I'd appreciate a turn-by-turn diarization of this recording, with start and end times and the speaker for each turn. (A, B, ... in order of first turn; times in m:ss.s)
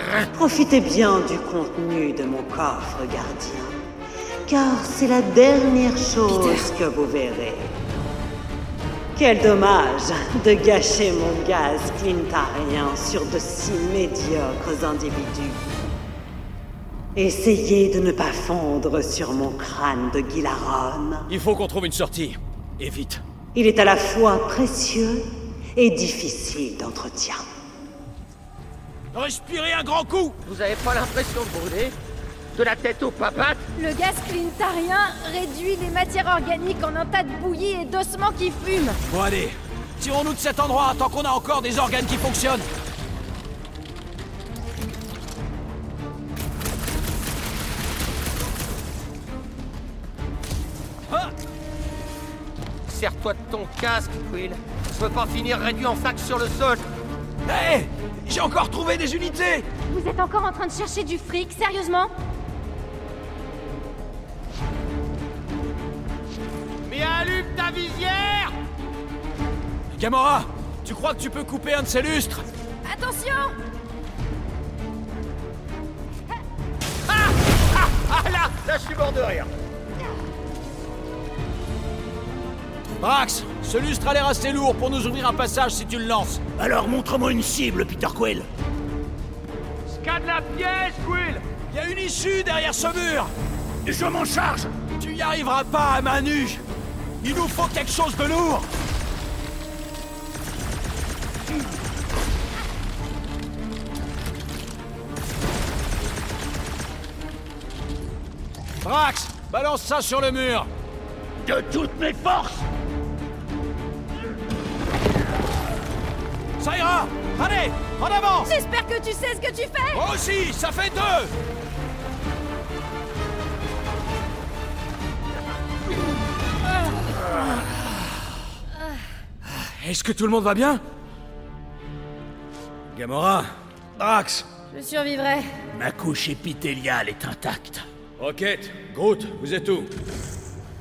0:00.3-0:03.8 A
0:04.4-0:07.8 A
0:06.3-0:06.7 B
0:09.1-0:15.8 A
0:17.1-0:21.3 A
0:21.3-0:23.2 C
0:23.5-0:27.5 A
0:29.1-0:30.4 C
0:30.4-0:32.0 D
0:32.5-0:33.6 D
0:33.8-0:39.0 B
0:39.1-0:42.7 C
0:52.9-0:56.8 D
0:57.4-0:59.6 C
0:59.9-1:02.1 B
1:06.8-1:08.5 D
1:09.9-1:12.4 C
1:12.8-1:13.6 B
1:17.1-1:19.5 D
1:23.0-1:26.4 C
1:26.6-1:28.5 E
1:29.8-1:31.4 D
1:31.7-1:33.3 C
1:33.8-1:34.7 E
1:35.0-1:36.6 C
1:37.2-1:38.7 C
1:48.8-1:50.7 C
1:51.4-1:52.7 E
1:56.6-1:58.5 C
1:58.4-2:00.0 B
1:59.9-2:01.3 C
2:09.4-2:10.8 C
2:12.9-2:14.5 C
2:14.7-2:15.5 B
2:15.7-2:17.8 E
2:18.2-2:19.9 C